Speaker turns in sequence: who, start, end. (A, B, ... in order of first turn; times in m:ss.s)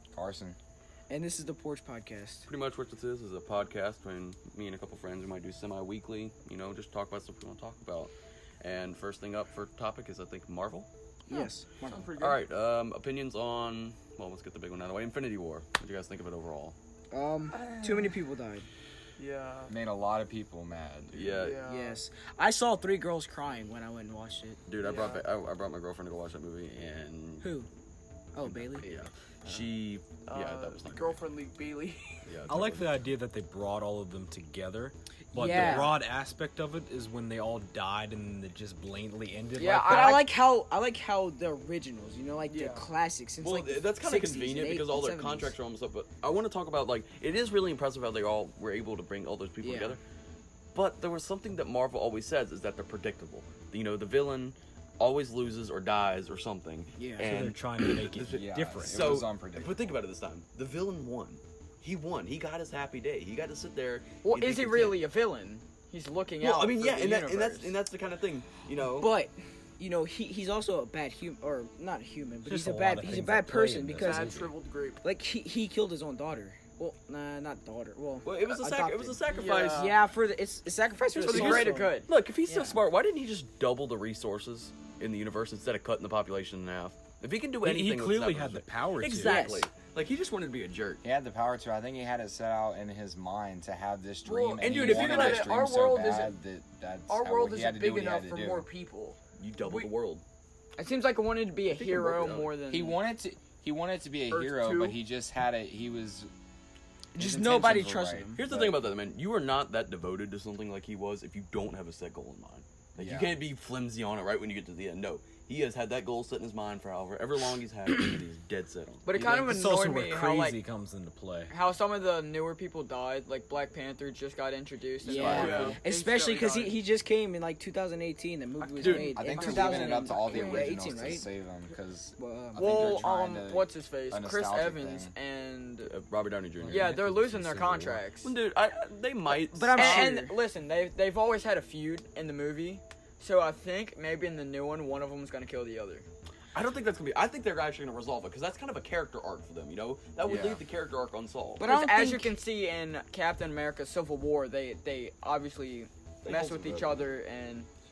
0:00.1-0:00.6 A
0:01.1-0:02.5 B
0:02.5-0:10.9 C
0:11.3-0:12.1 B
0:11.3-0:12.4 D
0:12.2-0:16.8 C
0:17.1-0:18.7 B
0:17.5-0:18.2 D
0:19.2-0:19.7 D
0:19.7-0:21.5 A
0:21.1-0:21.6 C
0:21.4-0:22.0 D
0:21.6-0:24.6 B
0:24.7-0:27.6 C
0:24.8-0:25.3 D
0:27.4-0:27.7 B
0:28.3-0:28.9 B
0:28.4-0:31.4 C
0:30.3-0:32.4 D
0:32.3-0:32.9 C
0:32.5-0:40.2 E
0:35.3-0:36.0 B
0:35.6-0:35.8 C
0:39.6-0:40.3 F
0:39.8-0:45.5 B
0:42.5-0:42.9 D
0:43.4-0:50.0 C
0:49.6-0:50.0 B
0:50.7-1:05.0 C
0:57.0-0:57.3 B
0:57.2-0:59.3 E
0:58.3-0:59.9 A
1:04.2-1:07.8 F
1:06.4-1:09.2 C
1:09.0-1:14.5 B
1:12.5-1:14.5 E
1:13.9-1:15.0 D
1:15.0-1:22.8 B
1:18.2-1:19.9 C
1:19.2-1:20.0 D
1:21.1-1:22.1 F
1:21.2-1:31.0 C
1:27.6-1:29.5 E
1:29.2-1:29.7 B
1:31.0-1:38.7 A
1:34.2-1:36.4 D
1:34.6-1:35.7 C
1:37.1-1:39.9 D
1:39.4-1:40.2 C
1:40.8-1:43.0 F
1:41.8-1:42.5 C
1:42.7-1:46.3 A
1:44.3-1:45.0 D
1:47.2-1:48.4 B
1:47.2-1:48.8 A
1:48.4-1:59.0 C
1:53.0-1:53.4 A
1:59.1-2:00.6 F
1:59.1-2:01.5 E
2:01.5-2:05.8 F
2:05.0-2:11.3 B
2:05.2-2:06.8 D
2:05.2-2:05.8 C
2:08.6-2:10.7 D
2:08.8-2:09.2 C
2:09.1-2:15.1 A
2:12.2-2:12.6 B
2:12.6-2:15.9 F
2:15.8-2:16.9 C
2:16.6-2:18.0 A
2:16.7-2:17.8 E
2:16.7-2:18.3 F
2:18.2-2:20.1 C
2:19.3-2:20.4 B
2:19.8-2:26.1 F
2:26.5-2:31.6 C
2:30.2-2:30.6 A
2:31.6-2:32.4 B
2:31.6-2:37.7 F
2:36.2-2:37.1 C